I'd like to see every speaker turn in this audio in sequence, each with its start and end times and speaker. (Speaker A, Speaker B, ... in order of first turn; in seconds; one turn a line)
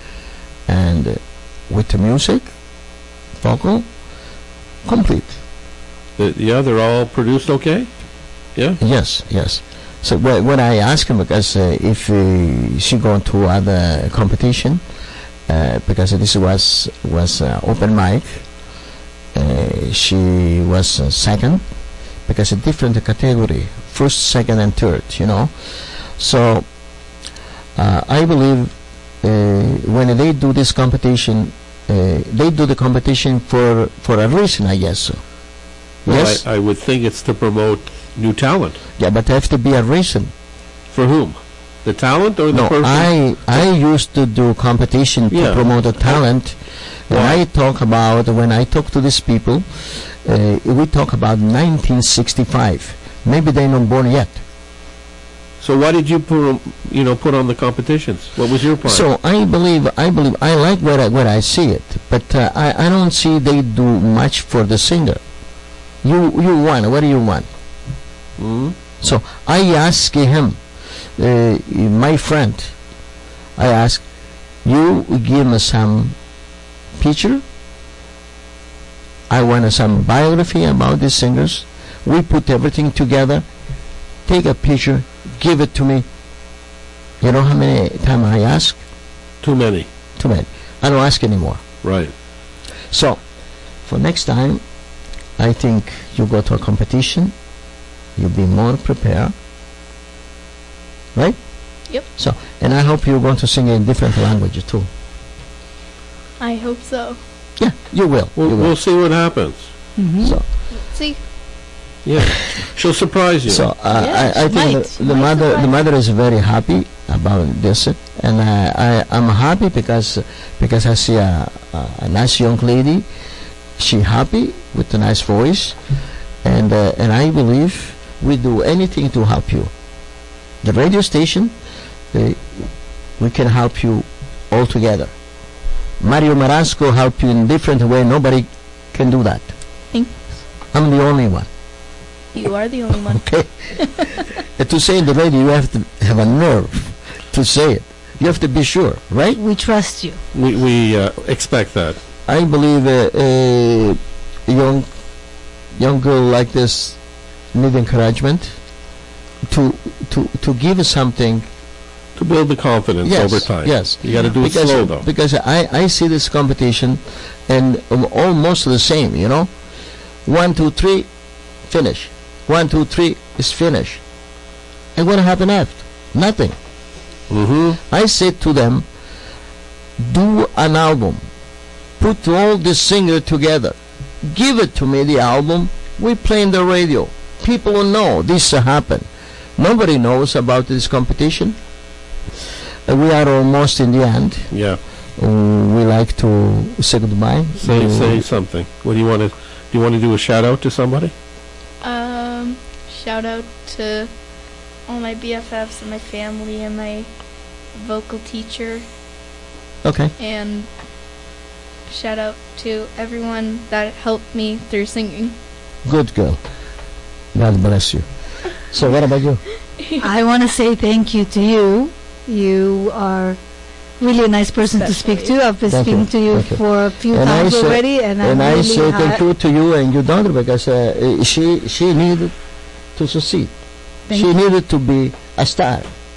Speaker A: 0.7-2.5
Speaker A: 3.4-3.9
Speaker A: 4.8-5.4
Speaker B: 6.2-7.9
Speaker A: 8.8-14.8
Speaker A: 15.5-18.4
Speaker A: 19.3-21.6
Speaker A: 22.3-25.5
Speaker A: 26.2-26.6
Speaker A: 27.8-35.2
Speaker A: 36.0-36.4
Speaker B: 36.0-38.8
Speaker A: 39.0-40.3
Speaker B: 40.9-43.6
Speaker A: 42.5-46.6
Speaker B: 45.3-46.2
Speaker A: 47.1-54.4
Speaker B: 47.1-47.4
Speaker B: 55.6-59.1
Speaker A: 58.8-65.2
Speaker A: 66.0-67.5
Speaker B: 68.4-68.8
Speaker A: 69.0-70.6
Speaker A: 71.2-72.7
Speaker A: 73.6-74.0
Speaker A: 74.6-76.2
Speaker A: 77.0-77.4
Speaker A: 79.3-83.4
Speaker A: 84.3-86.0
Speaker A: 87.2-88.8
Speaker B: 89.4-89.9
Speaker A: 90.2-91.6
Speaker B: 91.8-92.1
Speaker A: 92.9-93.2
Speaker A: 93.8-94.6
Speaker A: 95.4-97.3
Speaker A: 98.2-99.3
Speaker A: 102.2-104.9
Speaker C: 106.4-107.2
Speaker A: 107.6-108.7
Speaker B: 108.4-109.7
Speaker D: 110.0-110.4
Speaker C: 110.7-111.2
Speaker B: 112.0-113.7
Speaker A: 113.5-123.0
Speaker C: 113.9-115.8
Speaker A: 123.8-125.8
Speaker A: 126.4-129.7
Speaker A: 130.6-131.5
Speaker A: 132.1-132.7
Speaker A: 133.2-135.1
Speaker A: 136.0-139.5
Speaker A: 140.7-141.5
Speaker C: 142.3-143.2
Speaker A: 143.0-143.5
Speaker A: 144.0-149.4
Speaker D: 149.4-150.2
Speaker B: 150.3-152.0
Speaker A: 152.3-154.9
Speaker A: 155.8-157.0
Speaker A: 157.5-158.5
Speaker A: 159.5-161.5
Speaker B: 162.2-165.1
Speaker A: 163.0-169.5
Speaker A: 170.2-171.1
Speaker A: 171.7-174.0
Speaker A: 174.9-176.6
Speaker B: 177.3-177.8
Speaker A: 177.9-178.8
Speaker A: 180.0-181.2
Speaker A: 182.0-191.6
Speaker A: 192.9-194.5
Speaker B: 194.5-194.8
Speaker A: 195.2-198.2
Speaker B: 197.6-201.1
Speaker C: 201.8-204.1
Speaker C: 204.9-207.1
Speaker C: 207.8-208.8
Speaker A: 209.8-210.1
Speaker C: 210.2-210.7
Speaker C: 211.9-215.3
Speaker A: 215.8-216.4
Speaker A: 217.3-218.1
Speaker A: 218.7-219.4
Speaker D: 220.0-223.4
Speaker D: 224.0-229.2
Speaker C: 224.8-225.3
Speaker A: 225.7-232.3
Speaker A: 232.9-233.5
Speaker A: 234.1-235.9